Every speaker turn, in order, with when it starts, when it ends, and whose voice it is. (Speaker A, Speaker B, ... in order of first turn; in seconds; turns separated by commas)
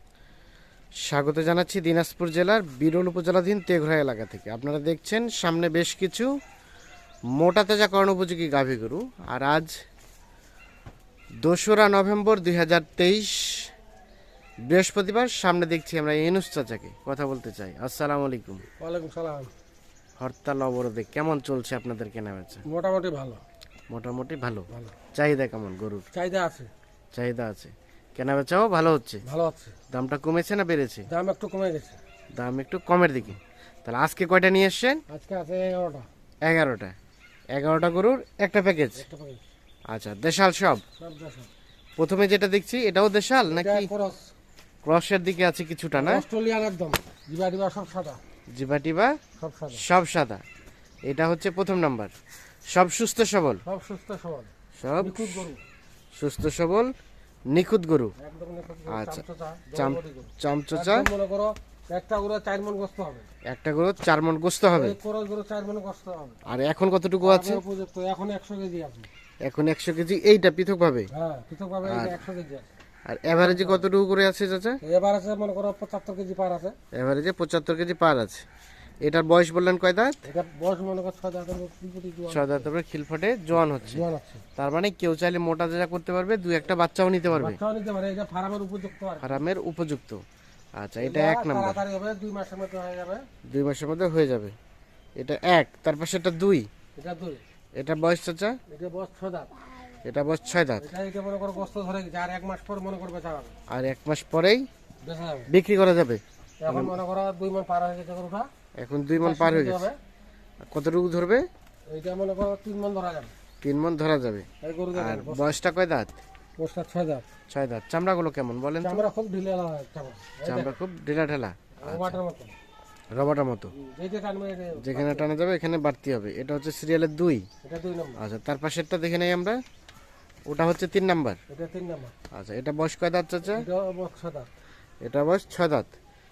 Speaker A: 1.0-6.3, Speaker A: 7.3-9.7, Speaker A: 11.4-13.7, Speaker A: 14.7-18.6, Speaker B: 18.8-19.5, Speaker A: 20.2-22.6, Speaker B: 22.7-23.4, Speaker A: 23.9-26.1, Speaker B: 24.7-25.0, Speaker B: 26.1-26.7, Speaker A: 27.1-29.2, Speaker B: 29.2-29.8, Speaker A: 29.9-31.1, Speaker B: 31.1-32.0, Speaker A: 32.4-35.0, Speaker B: 35.1-36.1, Speaker A: 36.5-36.9, Speaker A: 37.5-39.0, Speaker B: 39.0-39.4, Speaker A: 39.9-40.8, Speaker B: 41.0-41.5, Speaker A: 42.0-43.9, Speaker B: 43.5-44.3, Speaker A: 44.8-46.2, Speaker B: 46.0-48.2, Speaker A: 48.5-49.2, Speaker B: 49.4-49.9, Speaker A: 49.8-50.4, Speaker A: 51.1-52.1, Speaker A: 52.7-53.6, Speaker B: 53.7-55.6, Speaker A: 54.8-55.5, Speaker A: 56.1-56.9, Speaker A: 57.5-58.1, Speaker B: 58.2-63.3, Speaker A: 58.9-61.1, Speaker A: 63.5-65.0, Speaker B: 64.7-66.4, Speaker A: 66.5-67.6, Speaker B: 67.2-69.1, Speaker A: 69.4-71.1, Speaker B: 71.1-72.7, Speaker A: 71.8-72.2, Speaker A: 73.1-74.8, Speaker B: 73.4-73.9, Speaker B: 74.8-76.8, Speaker A: 76.9-78.4, Speaker A: 79.0-80.2, Speaker B: 80.2-82.7, Speaker A: 82.3-84.0, Speaker B: 83.9-84.4, Speaker A: 84.6-87.6, Speaker B: 87.3-89.4, Speaker A: 89.2-90.2, Speaker A: 90.8-91.8, Speaker B: 91.0-93.2, Speaker A: 93.5-94.6, Speaker A: 95.2-96.7, Speaker B: 97.0-97.4, Speaker A: 97.8-98.6, Speaker B: 98.7-99.5, Speaker A: 100.0-100.9, Speaker B: 100.8-103.5, Speaker A: 103.7-104.7, Speaker B: 105.0-105.5, Speaker A: 105.5-107.0, Speaker B: 106.6-108.5, Speaker A: 108.8-109.9, Speaker B: 109.1-110.0, Speaker A: 110.7-111.5, Speaker B: 111.9-113.3, Speaker A: 113.6-116.2, Speaker B: 114.6-115.6, Speaker B: 116.6-117.3, Speaker A: 117.5-119.1, Speaker B: 118.8-120.7, Speaker A: 120.5-122.2, Speaker B: 121.8-122.5, Speaker A: 123.1-123.7, Speaker B: 123.7-125.3, Speaker A: 124.8-127.5, Speaker B: 127.6-128.2, Speaker A: 128.2-129.6, Speaker A: 130.5-131.4, Speaker B: 131.5-132.1, Speaker A: 132.3-133.7, Speaker B: 133.5-134.5, Speaker A: 135.0-135.9